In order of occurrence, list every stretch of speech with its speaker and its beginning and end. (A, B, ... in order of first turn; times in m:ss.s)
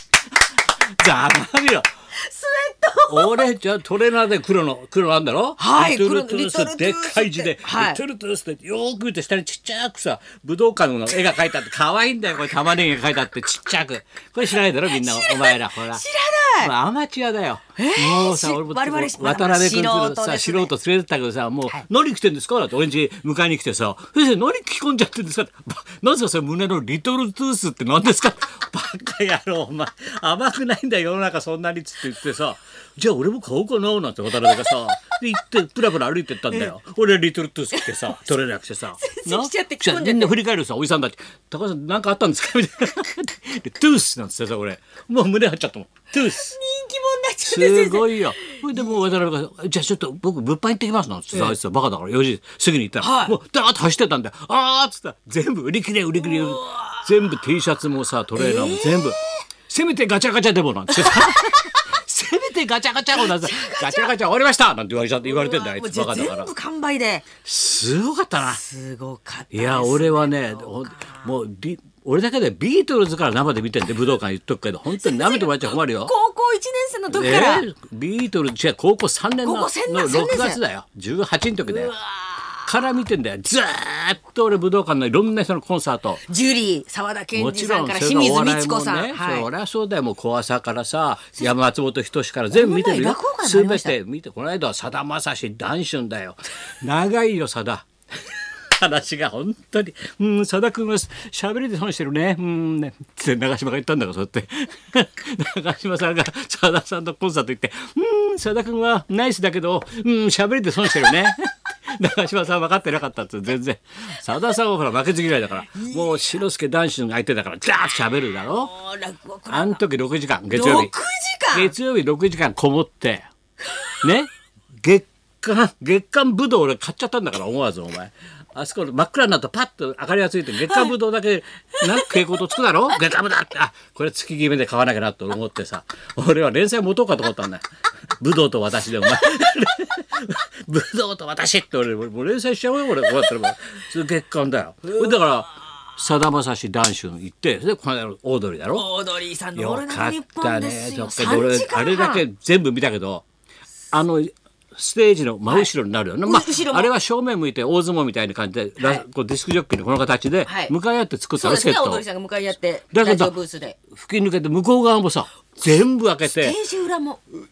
0:00.9-0:01.9 A
0:02.1-0:03.5 B
0:03.1-0:16.0 A
0:05.6-0:08.0 B
0:14.9-0:16.7 B
0:16.6-0:46.5 A
0:17.8-0:20.7 B
0:37.8-0:38.2 B
0:39.0-0:40.3 B
0:46.2-0:48.5 B
0:47.4-1:06.5 A
0:53.0-0:53.3 B
0:56.2-0:57.1 B
0:58.4-0:59.3 B
1:00.9-1:01.8 B
1:03.1-1:04.1 B
1:05.2-1:07.3 B
1:07.4-1:08.6 A
1:08.4-1:11.3 B
1:09.5-1:16.1 A
1:15.0-1:17.6 B
1:17.1-1:21.9 A
1:19.4-1:20.6 B
1:21.6-1:22.6 B
1:22.6-1:26.2 A
1:26.3-1:29.5 B
1:27.3-1:37.9 A
1:32.5-1:33.9 B
1:38.7-1:58.7 A
1:55.8-1:56.2 B
1:58.5-1:59.8 B
1:59.5-2:00.9 A
2:00.5-2:01.7 B
2:01.5-2:03.3 A
2:04.0-2:04.3 A
2:04.8-2:17.6 A
2:18.2-2:28.9 A
2:28.7-2:32.2 B
2:29.5-2:33.2 A
2:33.9-2:42.0 A
2:36.2-2:36.9 B
2:40.4-2:40.7 B
2:41.4-2:43.8 B
2:42.9-2:43.3 A
2:43.9-2:46.6 A
2:46.3-2:47.2 B